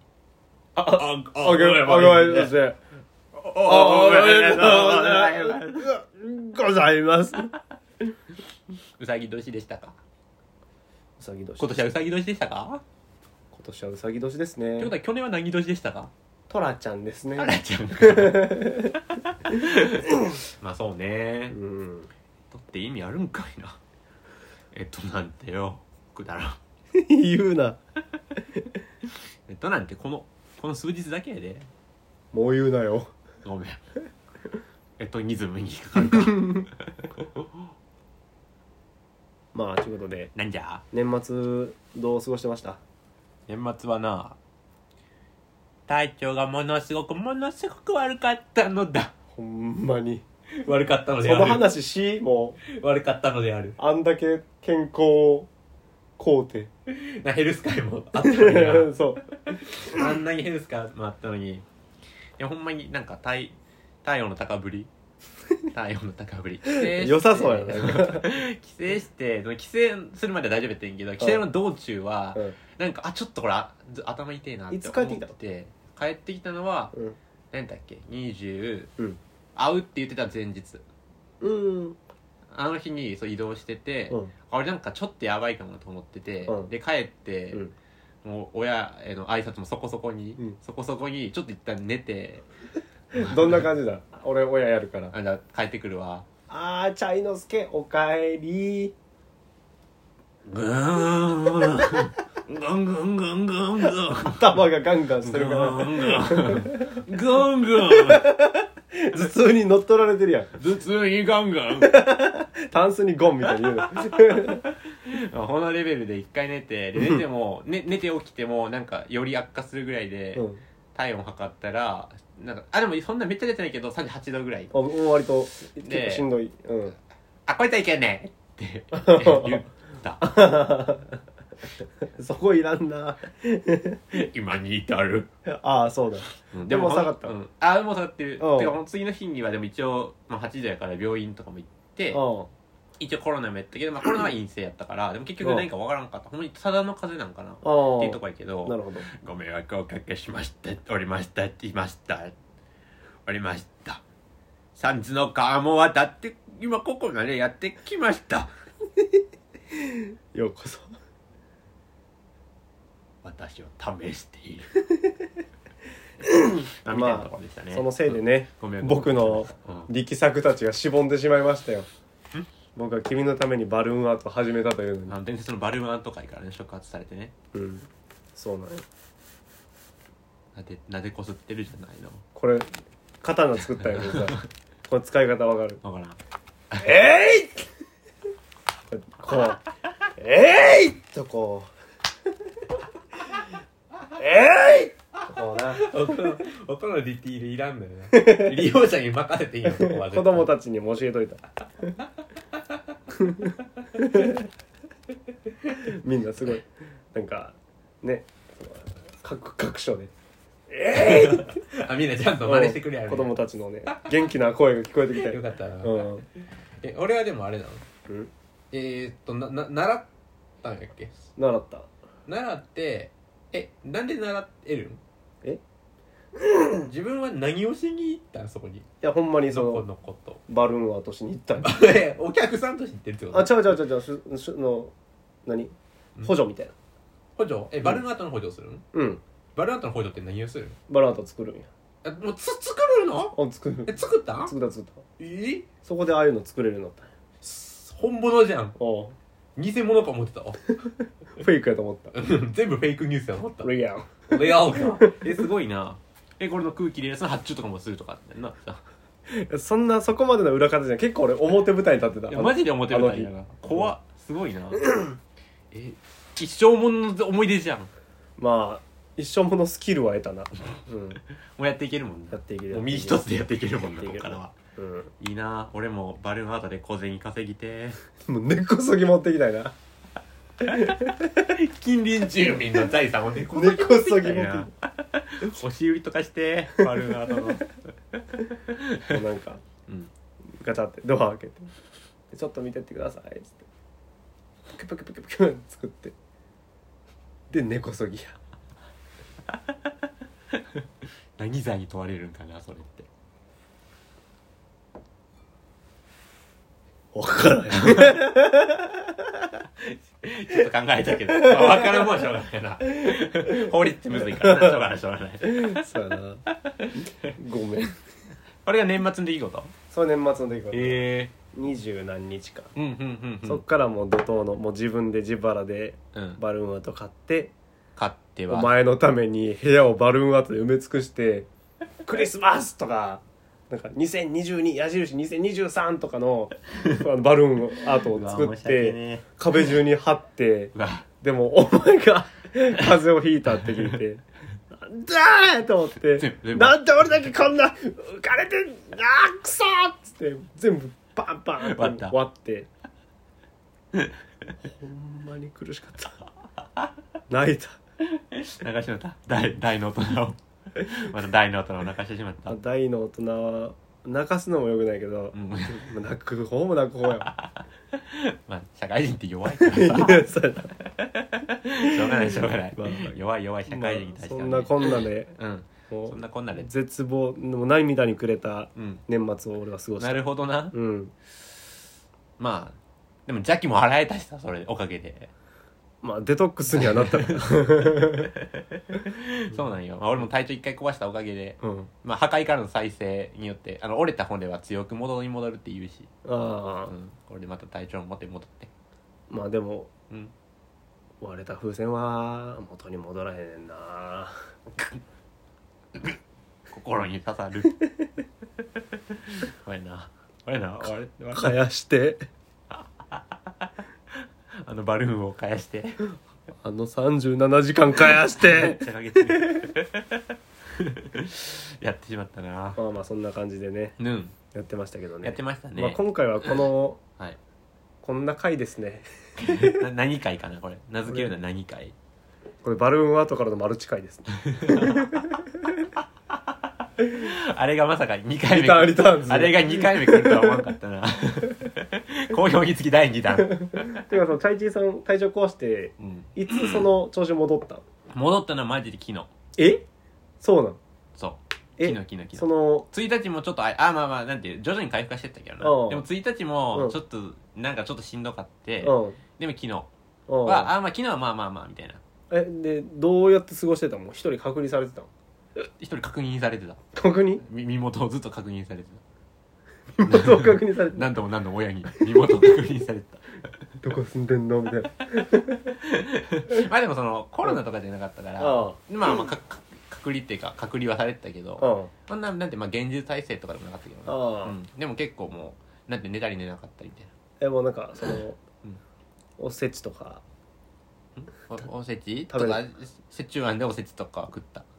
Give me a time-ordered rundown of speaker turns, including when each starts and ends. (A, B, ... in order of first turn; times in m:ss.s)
0:00.8-0:02.8 A
0:00.9-0:02.5 B
0:03.3-0:05.9 B
0:03.6-0:07.5 A
0:09.0-0:10.0 B
0:11.2-0:11.8 A
0:11.6-0:12.8 B
0:13.5-0:14.9 A
0:14.8-0:16.1 B
0:16.5-0:20.3 A
0:17.4-0:21.6 B
0:21.5-0:22.1 A
0:22.5-0:23.8 B
0:24.7-0:26.6 B
0:26.9-0:27.8 A
0:29.5-0:31.7 B
0:32.3-0:33.1 A
0:33.4-0:33.8 B
0:35.0-0:37.5 B
0:36.0-0:36.7 A
0:39.5-0:40.3 A
0:40.4-0:40.8 B
0:40.9-0:42.8 A
0:43.5-0:44.4 B
0:45.9-0:49.1 B
0:49.3-0:50.2 A
0:50.6-0:51.7 B
0:51.2-0:52.6 A
0:52.6-0:53.8 B
0:53.8-0:55.5 A
0:56.2-0:56.7 A
0:56.9-0:58.9 B
0:58.2-1:00.0 A
0:59.5-1:01.6 B
1:02.4-1:04.9 B
1:05.7-1:16.9 B
1:06.6-1:08.3 A
1:14.7-1:15.3 A
1:17.5-1:18.9 B
1:19.6-1:20.8 B
1:21.4-1:22.0 A
1:22.5-1:27.6 B
1:26.5-1:26.7 A
1:28.2-1:32.5 B
1:33.1-1:35.1 A
1:33.1-1:33.6 B
1:35.1-1:36.3 B
1:36.5-1:38.9 A
1:40.5-1:44.6 B
1:44.1-1:47.0 A
1:45.2-1:48.3 B
1:47.9-1:50.6 A
1:50.6-1:52.0 B
1:51.8-1:54.6 A
1:53.8-2:04.7 B
1:57.0-1:57.2 A
2:00.4-2:00.6 A
2:04.7-2:07.0 A
2:05.8-2:06.3 B
2:07.5-2:10.3 B
2:08.9-2:09.6 A
2:10.2-2:11.2 A
2:12.0-2:14.0 A
2:14.1-2:15.3 B
2:15.5-2:17.4 A
2:16.5-2:22.2 B
2:18.4-2:18.8 A
2:22.1-2:22.5 A
2:23.0-2:32.4 B
2:25.4-2:25.7 A
2:27.6-2:29.1 A
2:33.3-2:34.0 B
2:34.8-2:38.5 B
2:39.8-2:40.9 A
2:43.2-2:44.8 B
2:46.2-2:51.9 A
2:46.8-2:49.9 B
2:52.8-2:55.2 A
2:55.1-2:57.3 B
2:57.5-2:58.8 A
3:00.5-3:02.2 B
3:02.4-3:02.7 A
3:03.2-3:05.8 A
3:03.8-3:04.4 B
3:05.8-3:06.2 B
3:06.8-3:07.7 A
3:08.9-3:09.6 A
3:10.2-3:11.7 A
3:14.2-3:15.9 A
3:15.7-3:20.5 B
3:18.1-3:18.6 A
3:19.7-3:22.0 A
3:23.1-3:24.5 A
3:25.8-3:30.1 A
3:30.7-3:31.6 A
3:30.9-3:33.4 B
3:32.4-3:36.2 A
3:35.1-3:36.1 B
3:36.8-3:37.9 B
3:38.7-3:40.1 B
3:40.6-3:41.2 B
3:41.4-3:41.9 A
3:42.3-3:45.0 B
3:46.8-3:48.9 B
3:49.0-3:49.8 A
3:49.5-3:50.4 B
3:50.5-3:51.8 A
3:51.6-3:53.8 B
3:53.3-3:54.9 A
3:55.5-3:56.7 A
3:57.4-3:58.8 B
3:58.9-3:59.2 A
3:59.6-4:00.8 B
4:00.9-4:01.7 A
4:02.0-4:03.4 B
4:03.3-4:05.1 A
4:03.9-4:04.5 B
4:05.2-4:05.7 B
4:05.8-4:07.1 A
4:07.4-4:08.8 B
4:08.8-4:09.2 A
4:09.6-4:10.6 B
4:11.4-4:12.2 A
4:12.1-4:18.8 B
4:13.6-4:15.2 A
4:19.3-4:23.9 A
4:22.3-4:24.8 B
4:25.7-4:27.9 B
4:28.4-4:31.2 A
4:31.6-4:34.6 B
4:32.3-4:33.3 A
4:34.0-4:35.1 A
4:35.2-4:38.0 B
4:38.3-4:39.8 A
4:40.6-4:41.5 A
4:41.4-4:49.2 B
4:43.5-4:44.7 A
4:46.8-4:47.4 A
4:49.0-4:49.6 A
4:50.6-4:51.7 A
4:52.3-4:53.7 A
4:54.7-4:56.2 A
4:57.5-4:58.4 A
5:00.5-5:00.8 B
5:01.4-5:03.1 B
5:07.1-5:09.3 A
5:07.7-5:08.2 B
5:09.8-5:15.9 B
5:11.3-5:12.1 A
5:13.0-5:14.8 A
5:15.4-5:16.4 A
5:16.5-5:17.3 B
5:17.0-5:18.0 A
5:18.6-5:19.7 B
5:19.9-5:22.7 A
5:20.7-5:21.3 B
5:22.8-5:23.6 B
5:23.4-5:27.5 A
5:26.1-5:26.4 B
5:28.0-5:28.7 B
5:28.5-5:31.5 A
5:32.0-5:52.7 A
5:38.1-5:39.2 B
5:40.8-5:41.1 B
5:43.6-5:44.0 B
5:46.2-5:47.3 B
5:51.6-5:52.2 B
5:54.6-5:56.2 A
5:57.3-5:57.8 A
5:58.0-6:02.6 B
6:02.5-6:07.3 A
6:05.3-6:05.9 B
6:07.2-6:16.7 B
6:09.5-6:10.7 A
6:11.8-6:13.2 A
6:13.7-6:15.4 A
6:15.9-6:21.1 A
6:18.8-6:19.0 B
6:20.0-6:20.8 B
6:22.4-6:25.3 B
6:26.0-6:28.3 A
6:26.7-6:36.1 B
6:31.6-6:31.9 A
6:36.2-6:36.9 A
6:36.9-6:38.7 B
6:39.3-6:39.9 A
6:41.2-6:44.4 A
6:46.7-6:47.8 B
6:48.8-6:51.6 B
6:51.3-6:52.2 A
6:52.7-6:53.7 B
6:54.6-6:56.0 B
6:56.6-6:59.7 A
6:57.9-7:02.8 B
7:02.8-7:04.0 A
7:04.0-7:04.4 B
7:04.5-7:07.0 A
7:05.2-7:06.7 B
7:08.0-7:09.8 A
7:09.4-7:12.0 B
7:11.1-7:11.3 A
7:12.6-7:15.9 A
7:14.5-7:15.2 B
7:16.0-7:24.1 B
7:18.5-7:20.7 A
7:23.4-7:27.8 A
7:26.0-7:26.9 B
7:28.1-7:29.3 B
7:29.6-7:29.9 A
7:30.4-7:30.8 A
7:31.2-7:39.9 B
7:31.8-7:32.9 A
7:35.6-7:36.0 A
7:38.8-7:39.2 A
7:40.3-7:40.7 A
7:40.4-7:42.0 B
7:42.3-7:45.1 A
7:45.8-7:46.8 B
7:47.0-7:47.4 A
7:47.4-7:49.0 B
7:50.0-7:51.1 A
7:50.0-7:53.5 B
7:52.0-7:52.5 A
7:53.8-7:55.8 A
7:55.7-8:07.1 B
7:58.4-7:58.8 A
8:01.6-8:01.9 A
8:04.1-8:04.6 A
8:07.4-8:08.4 A
8:09.4-8:10.2 A
8:11.2-8:14.7 B
8:12.3-8:12.6 A